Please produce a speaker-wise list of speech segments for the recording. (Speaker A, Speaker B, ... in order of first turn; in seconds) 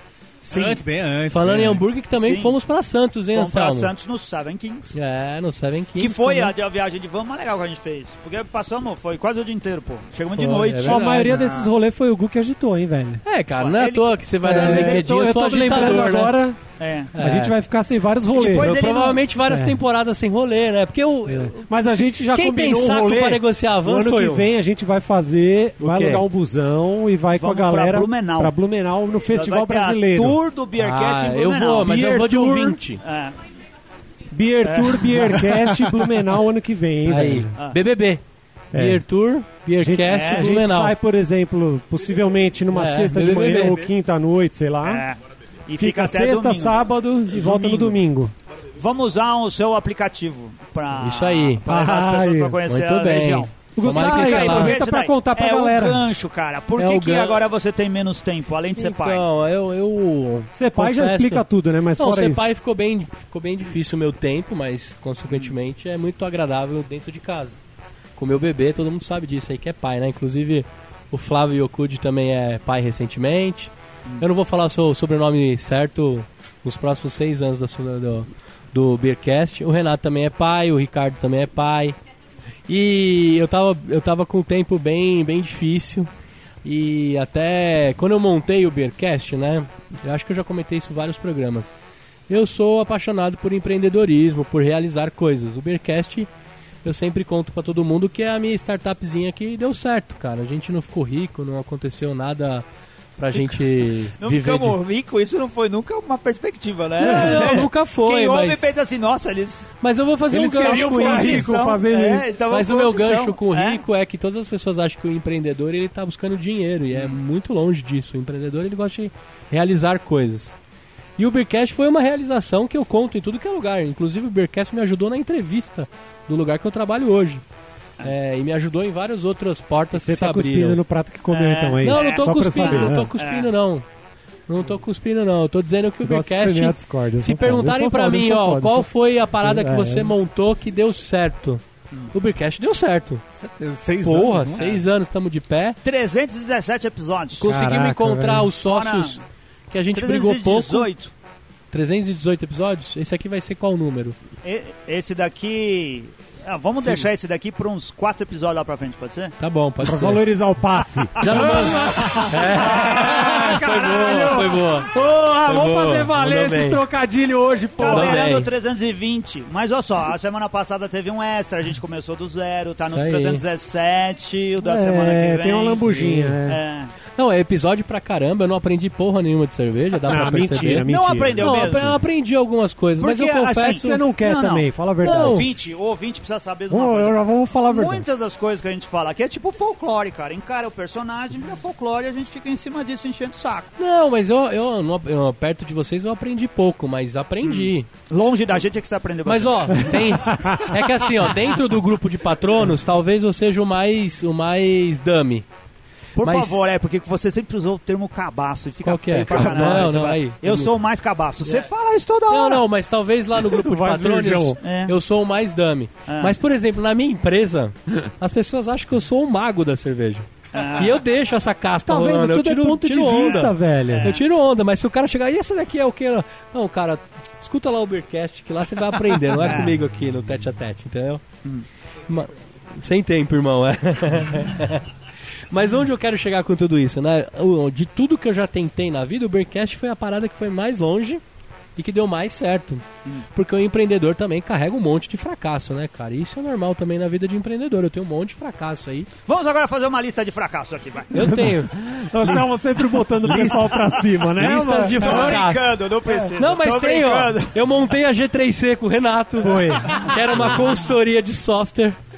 Speaker A: 0.4-0.8, 2.1-2.6, 3.3-4.9, 6.0-11.4, 13.6-15.0, 16.8-17.1, 18.3-19.2, 27.3-28.6, 29.3-33.4, 34.6-35.4, 40.0-40.5, 44.8-46.8, 47.3-48.0, 48.8-59.2, 103.3-103.7, 104.2-109.7, 110.6-113.8, 116.9-117.2, 131.3-133.5, 145.8-147.5, 148.6-149.2, 149.9-151.1, 154.4-159.3, 161.2-162.2, 163.7-164.4, 167.8-176.9, 180.8-181.9, 183.0-193.7, 197.4-200.1, 206.2-212.6, 214.6-214.9, 216.1-216.3, 220.5-221.0, 223.1-224.2, 229.4-229.7, 249.2-251.1, 255.0-257.6
Speaker B: 0.5-1.9, 43.6-43.9, 143.3-144.7
Speaker C: 1.3-3.9, 4.9-6.5, 10.3-11.6, 13.2-16.4, 17.1-17.5, 18.5-21.7, 22.3-24.5, 25.8-26.2, 30.8-33.0, 37.0-38.2, 38.7-40.9, 42.7-43.8, 51.0-51.6, 52.6-54.8, 56.8-57.4, 58.8-61.4, 62.0-67.6, 68.2-82.0, 82.7-86.1, 86.6-91.7, 92.3-96.3, 96.8-102.7, 103.2-104.8, 107.0-108.7, 109.8-111.6, 112.5-120.6, 121.2-127.4, 128.0-130.8, 131.8-133.8, 134.5-143.2, 144.0-145.8, 147.4-149.2, 149.7-150.9, 151.7-154.2, 159.4-160.2, 161.2-164.9, 165.4-166.8, 167.8-168.5, 172.9-173.4, 177.2-184.0, 185.0-185.4, 193.8-197.9, 199.2-205.4, 206.2-206.7, 208.8-210.7, 212.3-231.2, 232.1-234.9, 235.5-241.2, 241.8-249.1, 251.1-252.4, 253.2-253.8, 254.3-255.8, 256.4-262.0
Speaker D: 10.8-13.2, 14.4-16.6, 17.2-18.8, 19.5-19.8, 21.3-30.4, 34.3-37.5, 38.7-39.0, 39.8-45.0, 45.8-48.3, 51.6-52.6, 53.7-56.0, 60.5-62.5, 107.0-107.6, 110.3-112.3, 129.9-133.1, 136.0-140.1, 147.4-148.5, 159.8-168.3, 174.6-176.6, 180.1-181.8, 183.6-185.5, 186.7-188.1, 200.2-200.7, 209.2-209.9, 213.4-214.6, 221.9-224.1, 251.2-255.4, 259.4-260.4